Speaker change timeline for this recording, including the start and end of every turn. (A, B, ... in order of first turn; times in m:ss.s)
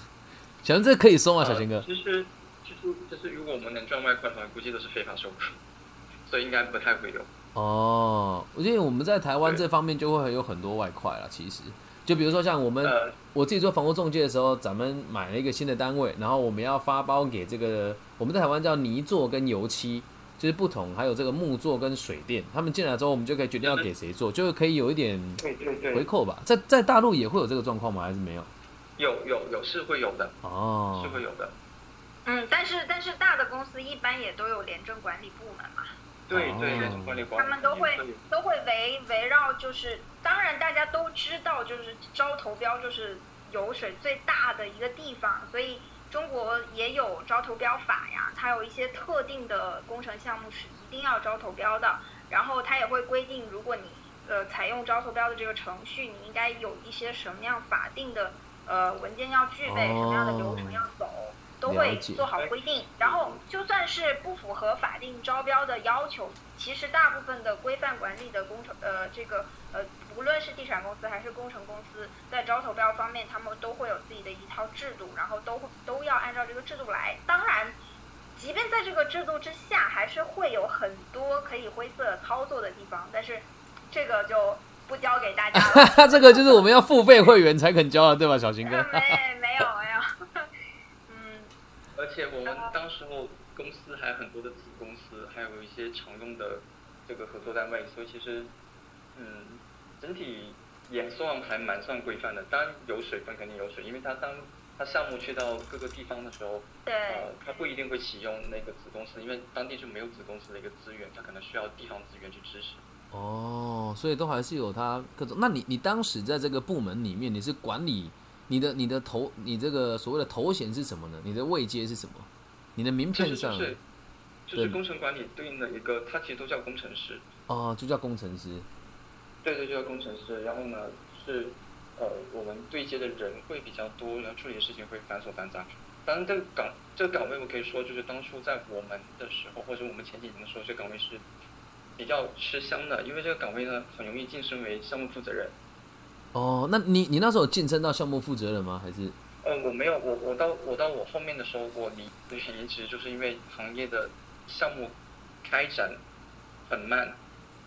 0:00.6-0:01.8 A
0:01.4-0:05.6 B
0:06.3-0:07.3 B
0:07.5-0:28.5 A
0:12.8-0:13.2 B
0:23.6-0:23.9 B
0:25.4-0:26.1 B
0:29.0-0:30.4 B
0:30.4-0:31.2 A
0:30.9-0:31.6 B
0:32.2-0:35.9 C
0:36.3-0:38.2 B
0:36.3-0:37.3 A
0:36.8-1:17.8 C
0:59.6-1:00.9 A
1:01.6-1:02.2 A
1:02.4-1:03.4 B
1:18.4-1:26.6 C
1:25.5-1:29.2 A
1:28.6-1:30.5 C
1:31.1-1:31.5 C
1:32.0-1:38.5 B
1:32.5-1:32.7 C
1:39.1-1:52.8 B
1:46.9-1:47.3 C
1:53.1-2:03.8 A
2:03.1-2:03.8 B
2:04.5-2:07.3 B
2:07.5-2:08.7 A
2:09.4-2:21.2 B
2:22.0-2:25.6 B
2:26.3-2:29.2 A
2:29.4-2:36.0 B
2:36.7-2:37.2 B